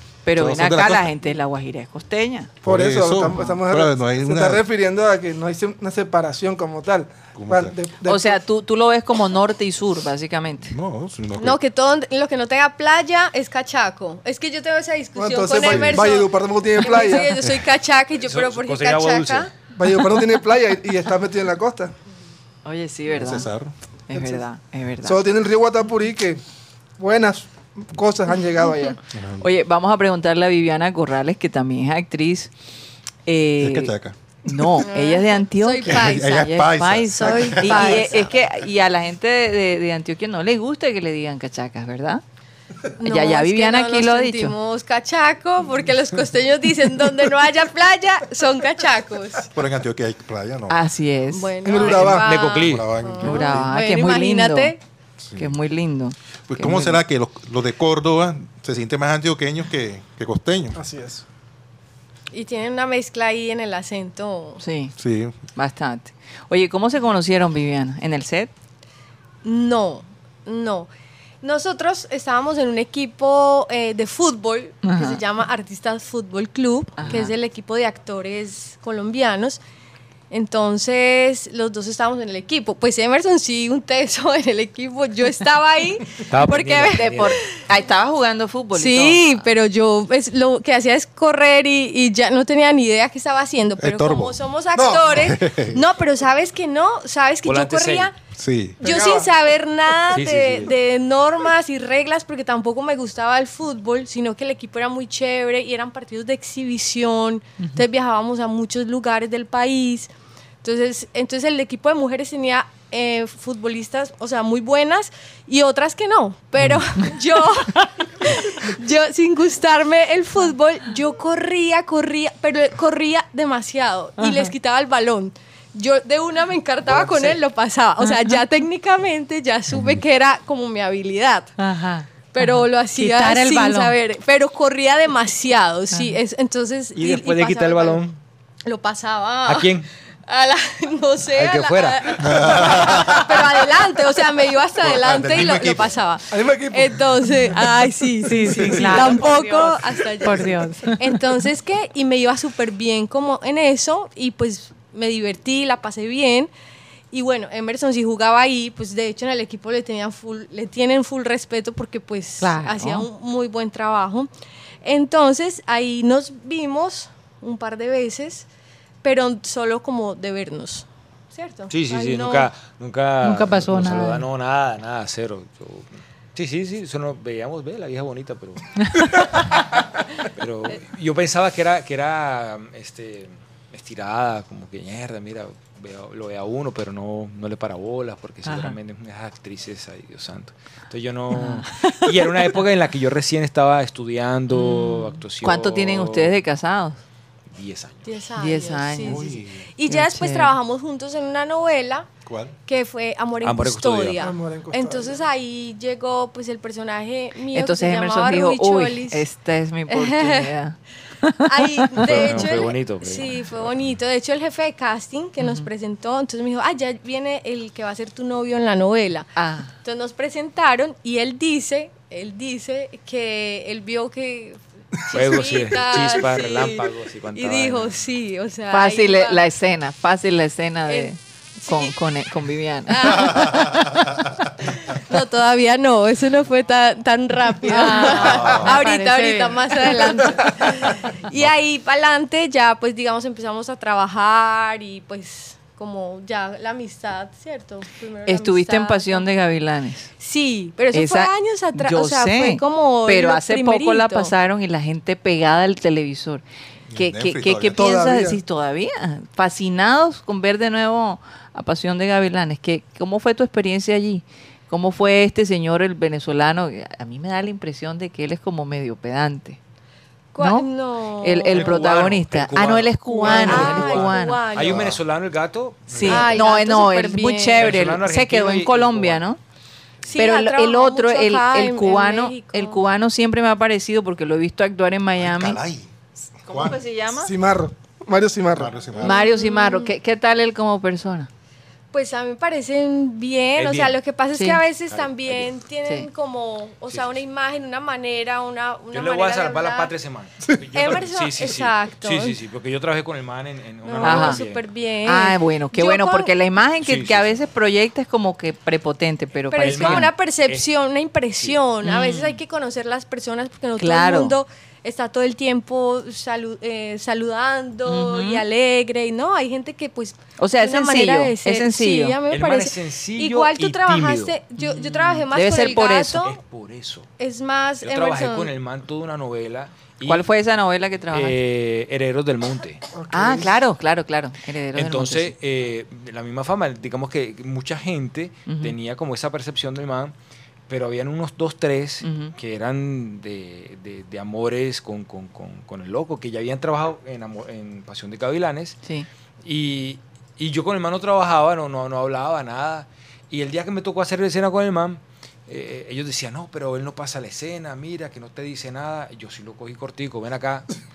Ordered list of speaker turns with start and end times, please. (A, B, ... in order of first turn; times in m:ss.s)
0:00.2-0:02.5 A
0:00.3-0:01.1 B
0:02.6-0:04.6 B
0:02.6-0:08.4 C
0:07.3-0:07.7 B
0:08.0-0:10.7 A
0:10.7-0:11.6 B
0:11.4-0:19.5 D
0:15.2-0:17.3 C
0:15.6-0:16.0 B
0:18.2-0:19.5 E
0:19.7-0:21.9 C
0:22.6-0:23.5 A
0:23.1-0:23.7 B
0:24.1-0:25.2 A
0:24.1-0:24.4 C
0:25.0-0:26.4 C
0:27.0-0:29.0 C
0:29.1-0:29.4 B
0:29.4-0:32.5 A
0:33.2-0:33.9 A
0:33.6-0:34.8 B
0:34.4-0:42.2 A
0:34.8-0:36.5 D
0:35.8-0:38.1 B
0:37.1-0:38.4 D
0:43.0-0:49.5 D
0:43.0-0:44.5 A
0:49.5-0:50.8 B
0:50.7-0:51.5 A
0:51.3-0:54.8 D
0:51.6-0:52.3 C
0:51.8-0:53.0 E
0:52.6-0:53.7 B
0:53.2-0:54.7 A
0:55.2-0:55.5 B
0:55.4-0:57.0 A
0:56.5-1:00.8 B
1:00.7-1:01.2 C
1:02.3-1:04.6 D
1:04.6-1:04.9 A
1:05.0-1:05.3 B
1:05.6-1:08.5 A
1:09.4-1:10.9 D
1:11.4-1:19.6 D
1:14.8-1:15.2 A
1:17.0-1:17.3 A
1:20.3-1:27.4 D
1:26.3-1:27.4 E
1:26.9-1:29.2 A
1:28.7-1:38.1 D
1:33.8-1:34.4 B
1:34.8-1:35.1 C
1:35.0-1:35.8 B
1:37.4-1:38.1 E
1:38.4-1:38.8 B
1:38.8-1:39.3 C
1:38.8-1:50.1 D
1:40.1-1:40.7 E
1:50.6-2:11.5 D
2:04.2-2:04.5 A
2:11.6-2:14.0 A
2:12.3-2:18.0 D
2:16.9-2:18.2 E
2:18.6-2:19.8 D
2:19.4-2:19.9 E
2:20.3-2:36.5 D
2:21.3-2:22.8 E
2:22.2-2:23.5 B
2:24.8-2:26.0 B
2:26.3-2:27.3 C
2:28.2-2:30.9 A
2:28.4-2:29.6 C
2:37.1-2:44.3 D
2:42.4-2:43.1 A
2:44.8-2:48.5 D
2:49.0-2:52.5 D
2:51.7-2:59.6 E
2:53.2-2:54.2 A
3:00.3-3:16.4 E
3:08.4-3:08.8 A
3:11.3-3:12.1 A
3:14.5-3:17.0 A
3:17.5-3:18.2 E
3:18.0-3:22.1 D
3:18.4-3:19.3 A
3:19.0-3:19.6 B
3:19.9-3:20.5 A
3:22.2-3:22.5 B
3:22.6-3:29.2 D
3:23.4-3:24.3 E
3:24.2-3:25.2 C
3:27.5-3:32.4 A
3:29.9-3:30.5 D
3:31.4-3:39.3 D
3:32.0-3:33.9 E
3:35.4-3:35.7 A
3:39.4-3:39.7 A
3:39.8-3:49.4 D
3:45.1-3:48.0 E
3:48.7-3:54.0 A
3:50.9-3:51.1 D
3:51.6-3:51.9 D
3:52.9-3:53.8 D
3:54.6-4:09.2 D
3:57.6-4:00.3 A
3:58.2-3:58.7 B
4:08.2-4:10.1 A
4:10.2-4:14.3 D
4:10.9-4:16.4 A
4:16.9-4:17.9 B
4:17.0-4:29.6 A
4:17.7-4:18.4 C
4:30.3-4:31.9 D
4:30.4-4:30.7 A
4:31.2-4:34.4 A
4:31.5-4:36.4 E
4:33.1-4:34.9 D
4:34.6-4:35.0 B
4:35.9-4:36.3 B
4:35.9-4:39.4 A
4:36.0-4:37.8 D
4:37.6-4:39.2 E
4:40.1-4:42.8 D
4:40.1-4:45.6 A
4:45.2-4:45.9 B
4:46.4-4:46.8 B
4:46.4-4:47.3 A
4:47.2-4:48.9 C
4:48.5-4:49.2 B
4:49.0-4:49.9 D
4:49.0-4:51.3 A
4:51.9-4:59.9 D
4:53.6-4:54.0 E
4:54.3-4:54.6 A
4:54.9-4:55.5 E
4:56.9-4:57.2 E
4:58.9-5:04.7 E
5:00.7-5:02.4 D
5:03.8-5:06.3 D
5:04.0-5:04.4 A
5:05.0-5:10.1 A
5:06.8-5:07.4 E
5:09.5-5:26.4 D
5:09.6-5:10.7 E
5:11.3-5:11.6 E
5:11.8-5:12.4 A
5:13.8-5:14.4 A
5:17.8-5:18.4 A
5:20.4-5:22.2 A
5:22.3-5:24.4 E
5:24.6-5:26.2 A
5:26.2-5:27.1 E
5:27.2-5:28.5 D
5:27.8-5:30.3 E
5:30.0-5:31.4 A
5:31.1-5:32.8 E
5:32.9-5:33.5 C
5:33.1-5:35.3 A
5:34.7-5:40.1 E
5:38.5-5:38.7 A
5:40.7-5:48.8 E
5:42.0-5:42.3 A
5:49.4-6:00.7 E